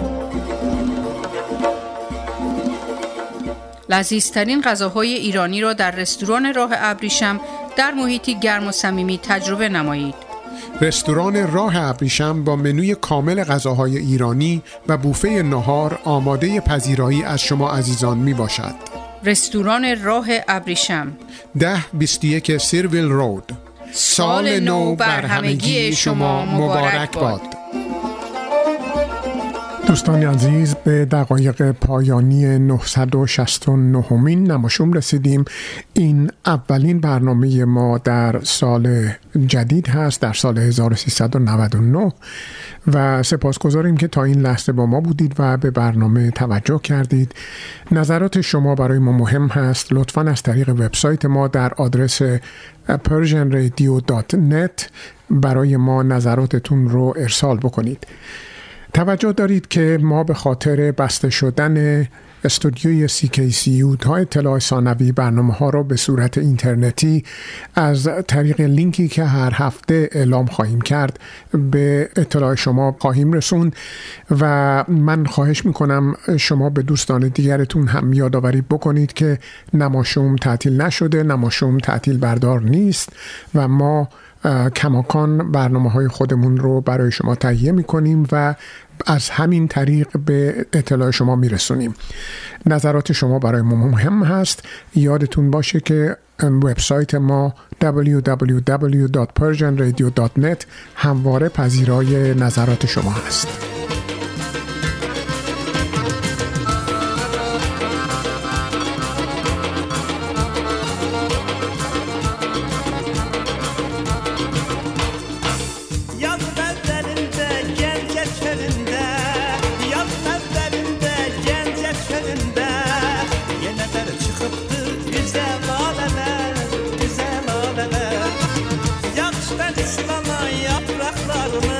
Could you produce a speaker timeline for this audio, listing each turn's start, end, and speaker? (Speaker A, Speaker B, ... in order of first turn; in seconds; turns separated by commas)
Speaker A: 3.9-10.2, Speaker B: 10.8-18.8, Speaker A: 19.2-21.2, Speaker B: 21.6-27.6, Speaker A: 24.0-27.4, Speaker B: 29.9-42.2, Speaker B: 42.9-47.4, Speaker B: 47.9-58.1, Speaker B: 58.9-73.8, Speaker B: 74.3-92.0, Speaker B: 92.7-103.6